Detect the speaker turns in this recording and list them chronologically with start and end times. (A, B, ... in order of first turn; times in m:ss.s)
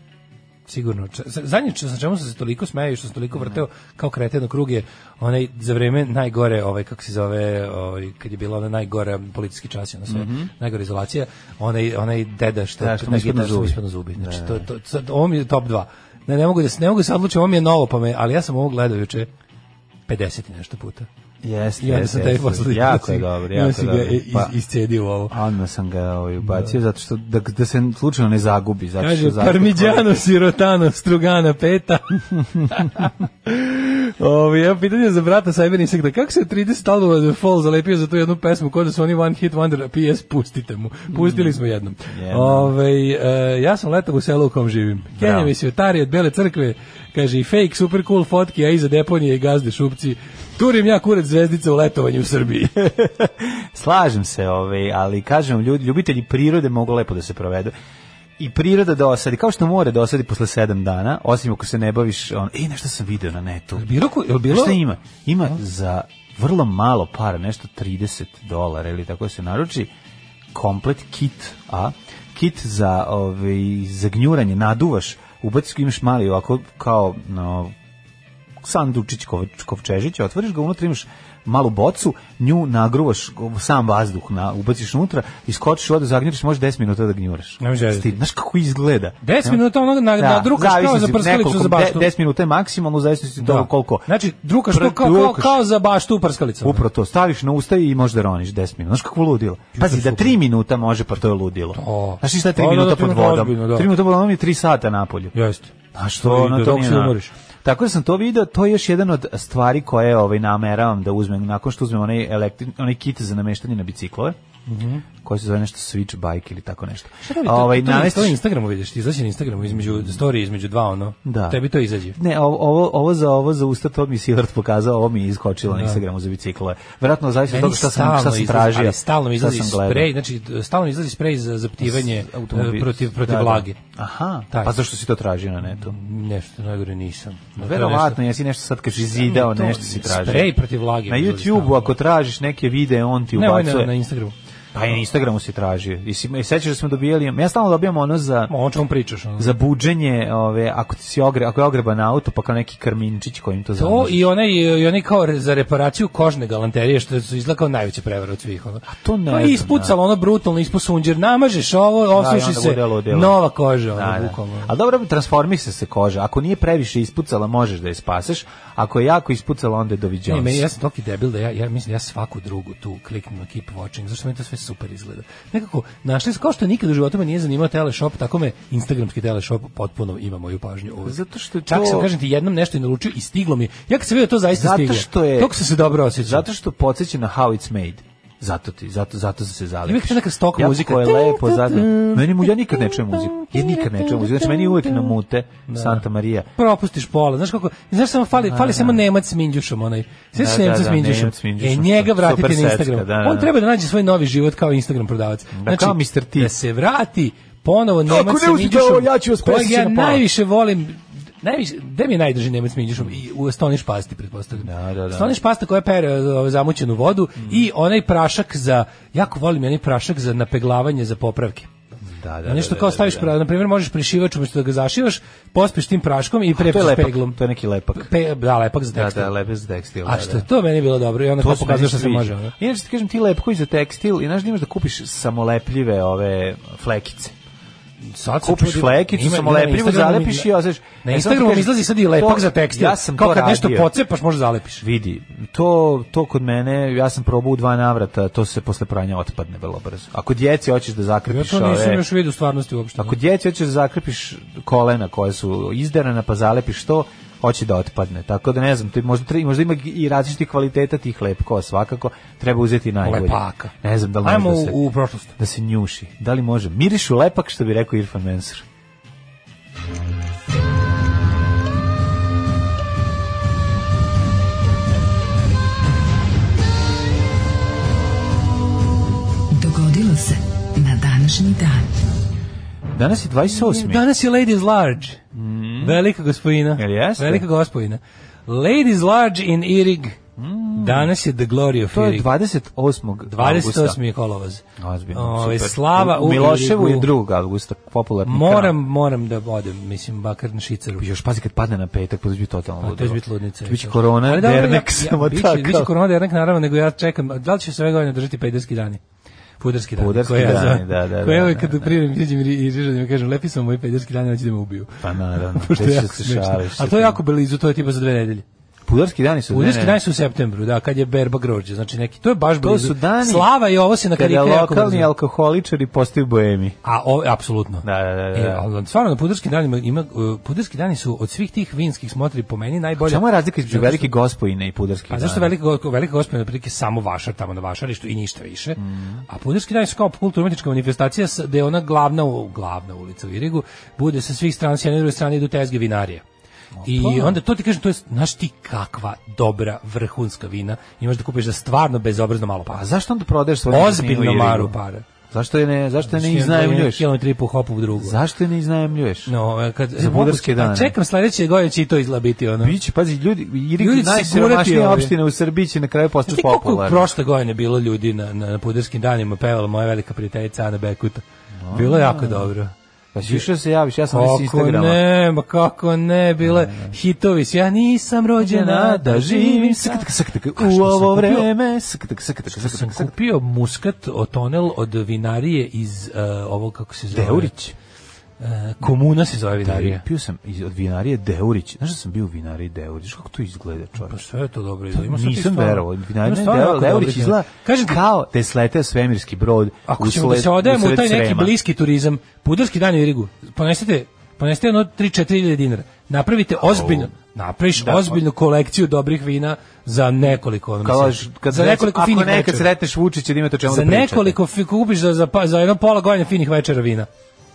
0:00.7-0:19.3 A
0:10.1-0:10.5 B
0:12.8-0:14.7 B
0:20.1-0:21.1 A
0:21.4-0:24.5 B
0:21.8-0:25.4 A
0:25.3-0:30.1 B
0:29.0-0:52.9 A
0:41.1-0:41.6 B
0:42.1-0:42.7 B
0:45.2-0:45.5 B
0:52.8-0:57.7 B
0:58.4-1:09.9 B
1:03.8-1:04.8 A
1:10.5-1:17.7 B
1:18.6-1:29.6 B
1:27.6-1:28.1 A
1:29.2-1:32.1 A
1:30.2-1:34.1 B
1:33.4-1:36.8 A
1:34.7-1:35.6 B
1:36.6-1:45.4 B
1:39.8-1:40.4 A
1:41.7-1:43.9 A
1:45.4-1:47.3 A
1:45.9-1:54.4 B
1:54.7-1:55.0 A
1:55.2-1:58.4 B
1:57.2-2:02.2 A
1:59.9-2:00.2 B
2:01.2-2:01.6 B
2:02.2-2:10.1 B
2:05.7-2:06.0 A
2:07.5-2:13.8 A
2:11.8-2:16.0 B
2:15.7-2:18.2 A
2:17.6-2:20.6 B
2:19.1-2:21.9 A
2:21.1-2:23.9 B
2:23.3-2:24.4 A
2:24.7-2:28.5 B
2:28.5-2:29.6 A
2:29.4-2:34.3 B
2:33.8-2:44.7 A
2:38.8-2:40.0 B
2:42.1-2:43.4 B
2:43.9-2:50.7 B
2:50.3-3:06.5 A
3:01.0-3:02.1 B
3:04.5-3:05.6 B
3:06.2-3:16.5 B
3:09.9-3:12.5 A
3:13.4-3:14.9 A
3:15.7-3:16.0 A
3:16.6-3:41.7 A
3:18.5-3:19.0 B
3:20.4-3:23.5 B
3:25.5-3:26.5 B
3:28.1-3:30.2 B
3:34.6-3:35.4 B
3:42.1-3:43.3 B
3:42.4-3:47.4 A
3:46.5-3:48.1 B
3:47.9-3:49.3 A
3:48.9-3:50.5 B
3:50.0-3:52.5 A
3:51.4-3:57.3 B
3:58.1-4:00.5 A
3:58.4-4:03.9 B
4:01.0-4:04.8 A
4:04.8-4:12.0 B
4:11.3-4:13.2 A
4:13.0-4:24.8 B
4:23.0-4:25.4 A
4:25.4-4:28.7 B
4:39.5-4:41.9 C
4:42.9-4:44.0 B
4:43.6-4:45.2 A
4:45.3-4:46.0 B
4:45.8-4:50.2 A
4:46.8-4:47.4 B
4:50.4-4:51.1 B
4:50.8-4:52.3 A
4:51.9-4:54.0 B
4:53.3-4:57.1 A
4:54.8-4:58.8 B
4:58.3-5:01.0 A
5:01.0-5:05.9 B
5:02.8-5:09.0 A
5:09.6-5:18.4 A
5:10.0-5:12.0 B
5:15.0-5:17.2 B
5:18.9-5:20.0 B
5:19.5-5:25.1 A
5:22.6-5:23.5 B
5:24.2-5:26.8 B
5:26.8-5:34.1 A
5:27.8-5:28.6 B
5:33.0-5:35.5 B
5:35.1-5:46.2 A
5:38.8-5:39.2 B
5:46.8-5:47.4 B
5:46.8-5:52.8 A
5:52.7-5:54.8 B
5:53.7-5:55.1 A
5:55.3-5:57.1 B
5:56.1-5:58.2 A
5:58.0-5:59.3 B
5:59.3-6:02.8 A
6:00.0-6:01.0 B
6:02.6-6:07.1 B
6:03.8-6:05.1 A
6:06.3-6:13.5 A
6:11.6-6:12.5 B
6:13.1-6:15.0 B
6:14.1-6:21.5 A
6:16.4-6:16.9 B
6:18.4-6:23.1 B
6:22.5-6:27.5 A
6:27.1-6:27.8 B
6:28.4-6:30.0 A
6:29.6-6:34.2 B
6:34.0-6:38.0 A
6:34.9-6:41.5 B
6:39.9-6:52.7 A
6:46.6-6:47.1 B
6:47.8-6:48.2 B
6:50.8-6:54.4 B
6:53.6-6:57.1 A